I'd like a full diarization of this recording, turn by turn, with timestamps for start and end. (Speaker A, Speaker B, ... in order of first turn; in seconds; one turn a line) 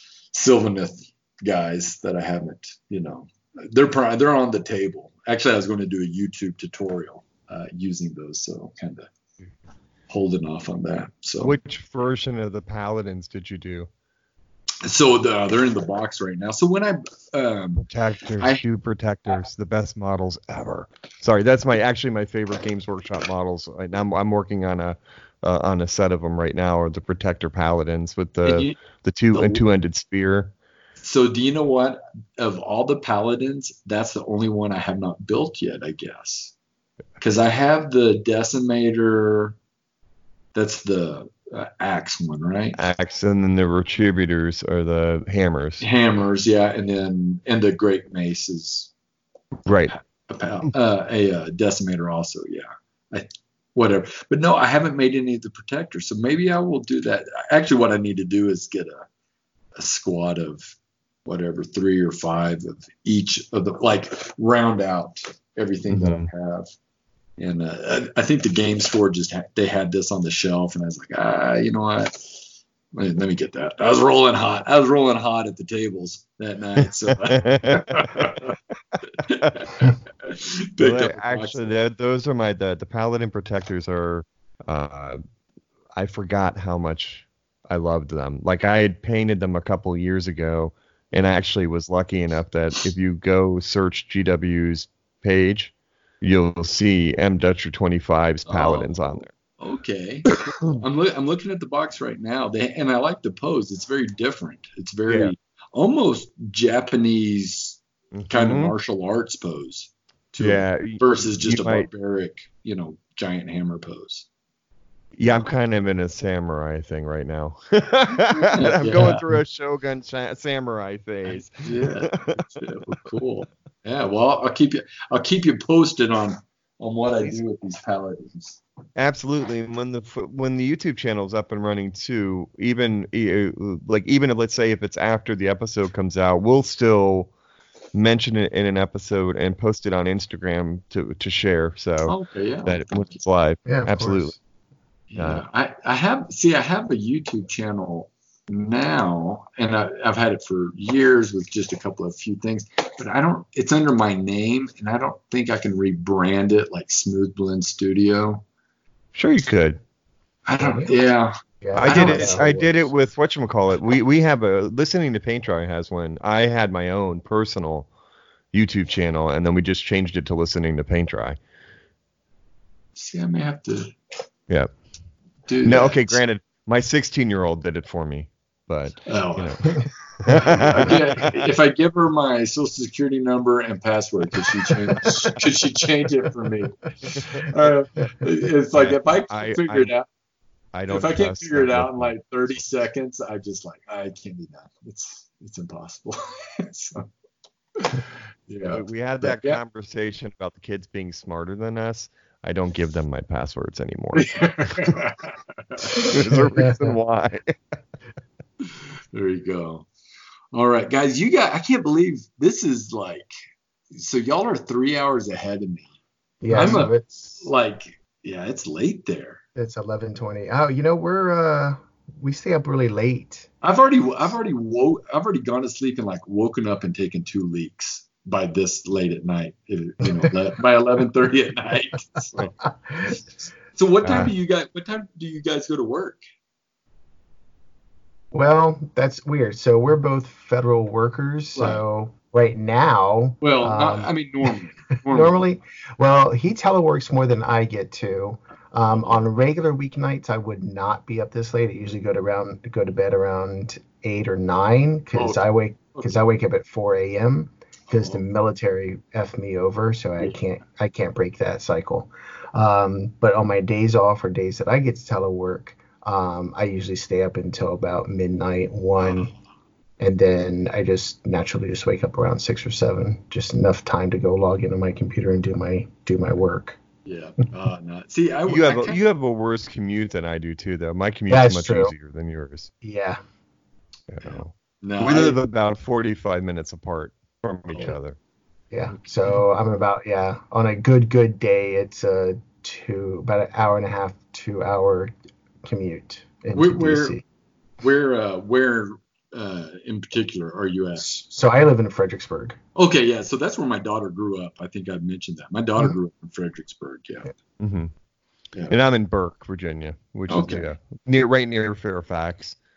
Speaker A: 0.3-9.1
Speaker A: 10.1-11.6
Speaker B: 11.4-13.9
Speaker A: 14.8-17.9
Speaker B: 17.8-30.5
Speaker A: 18.4-18.6
Speaker A: 28.4-28.8
Speaker A: 29.3-29.6
Speaker A: 31.0-36.5
Speaker A: 37.2-39.6
Speaker A: 40.5-42.8
Speaker B: 42.8-45.9
Speaker A: 45.8-48.9
Speaker B: 49.7-50.0
Speaker A: 49.8-59.1
Speaker A: 59.8-60.7
Speaker A: 61.2-66.7
Speaker B: 65.9-66.3
Speaker A: 67.4-72.4
Speaker A: 72.9-78.5
Speaker B: 77.2-78.4
Speaker A: 79.1-81.7
Speaker B: 80.8-85.2
Speaker B: 86.0-99.3
Speaker A: 98.5-114.3
Speaker B: 100.3-100.8
Speaker B: 105.1-105.3
Speaker B: 108.1-108.7
Speaker B: 110.4-111.9
Speaker B: 115.2-122.7
Speaker A: 118.5-119.2
Speaker A: 121.3-128.6
Speaker B: 128.9-137.3
Speaker B: 137.9-144.4
Speaker A: 142.1-143.2
Speaker C: 143.7-144.4
Speaker A: 145.1-158.4
Speaker B: 145.2-145.4
Speaker B: 159.2-159.8
Speaker A: 160.4-162.7
Speaker C: 160.6-160.9
Speaker C: 161.6-162.7
Speaker B: 161.7-167.9
Speaker B: 168.5-171.4
Speaker A: 172.9-173.9
Speaker A: 175.5-176.2
Speaker B: 175.6-181.4
Speaker A: 179.1-179.8
Speaker A: 180.4-190.1
Speaker C: 185.0-185.4
Speaker B: 188.7-189.9
Speaker B: 190.7-192.1
Speaker A: 190.9-197.1
Speaker A: 197.8-199.6
Speaker B: 198.7-204.9
Speaker A: 204.2-206.2
Speaker B: 205.9-207.6
Speaker C: 206.0-207.0
Speaker A: 209.1-209.9
Speaker A: 210.5-213.3
Speaker A: 213.9-215.9
Speaker C: 216.4-217.4
Speaker A: 216.5-219.4
Speaker C: 219.6-223.5
Speaker A: 223.6-232.5
Speaker C: 232.4-233.2
Speaker A: 233.7-236.2
Speaker B: 234.0-234.3
Speaker C: 238.3-244.1
Speaker A: 241.6-241.8
Speaker A: 243.4-245.4
Speaker C: 245.1-269.3
Speaker A: 248.9-249.2
Speaker A: 255.2-256.1
Speaker A: 257.9-258.2
Speaker A: 269.0-269.4
Speaker C: 270.0-276.8
Speaker A: 277.1-279.0
Speaker B: 278.5-282.7
Speaker C: 281.3-281.9
Speaker C: 282.8-283.2
Speaker B: 284.1-288.2
Speaker A: 284.2-285.4
Speaker A: 287.7-287.9
Speaker C: 288.7-297.2
Speaker A: 296.5-297.2
Speaker A: 297.8-301.2
Speaker C: 301.0-302.6
Speaker A: 302.8-307.3
Speaker B: 307.6-307.9
Speaker B: 308.7-312.6
Speaker A: 310.3-310.7